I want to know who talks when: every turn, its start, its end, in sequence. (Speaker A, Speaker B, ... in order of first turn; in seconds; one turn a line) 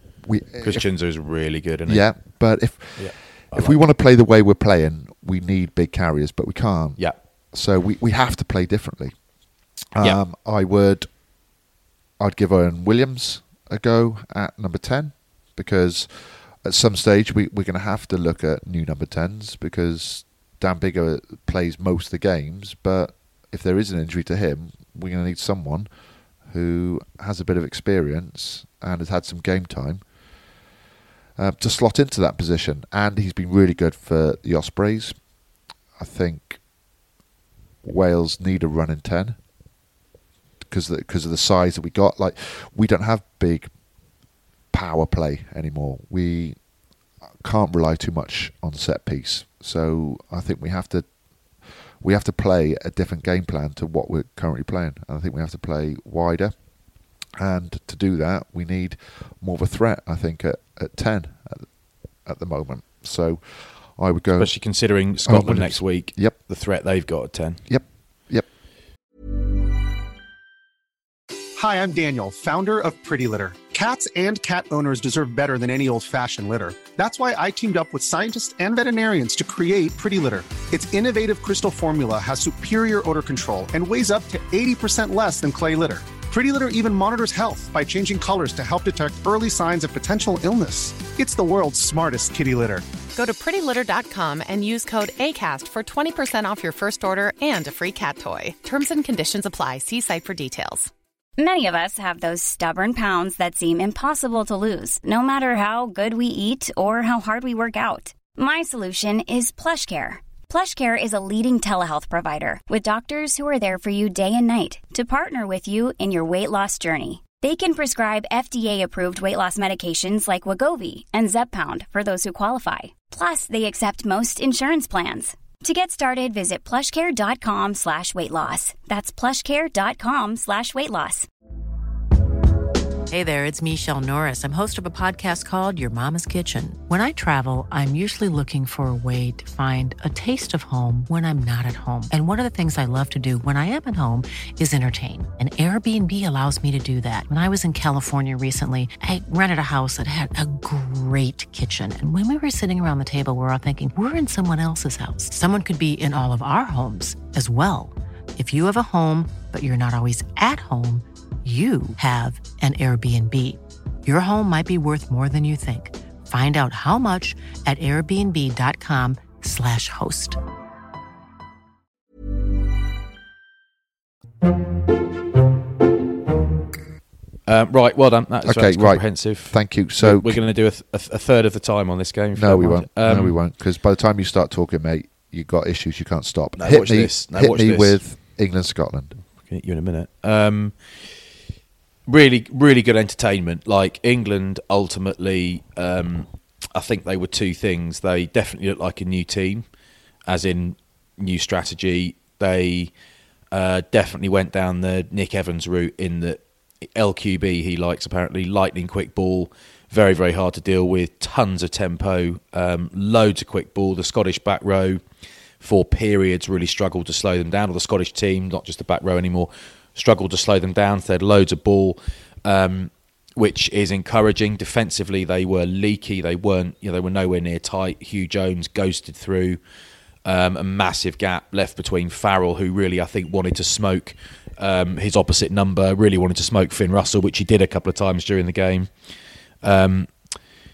Speaker A: 0.2-0.8
Speaker B: 0.6-2.4
Speaker A: 1.9-9.3
Speaker B: 3.0-3.8
Speaker A: 9.9-11.1
Speaker A: 12.2-25.9
Speaker A: 26.4-30.1
Speaker A: 31.4-35.2
Speaker A: 36.0-36.6
Speaker A: 37.8-39.4
Speaker A: 40.6-43.7
Speaker A: 44.7-46.6
Speaker A: 47.4-51.1
Speaker A: 51.6-56.6
Speaker A: 57.4-61.7
Speaker A: 62.2-66.4
Speaker B: 64.4-67.6
Speaker A: 67.7-68.5
Speaker C: 71.6-92.8
Speaker D: 93.1-100.9
Speaker E: 101.4-131.3
Speaker F: 133.1-170.4
Speaker B: 177.5-183.3
Speaker A: 178.4-180.4
Speaker A: 182.3-189.2
Speaker B: 186.6-188.0
Speaker B: 189.4-191.1
Speaker B: 192.1-199.7
Speaker B: 200.3-202.9
Speaker B: 203.5-215.0
Speaker B: 215.6-229.6
Speaker B: 230.2-238.9
Speaker B: 239.6-240.3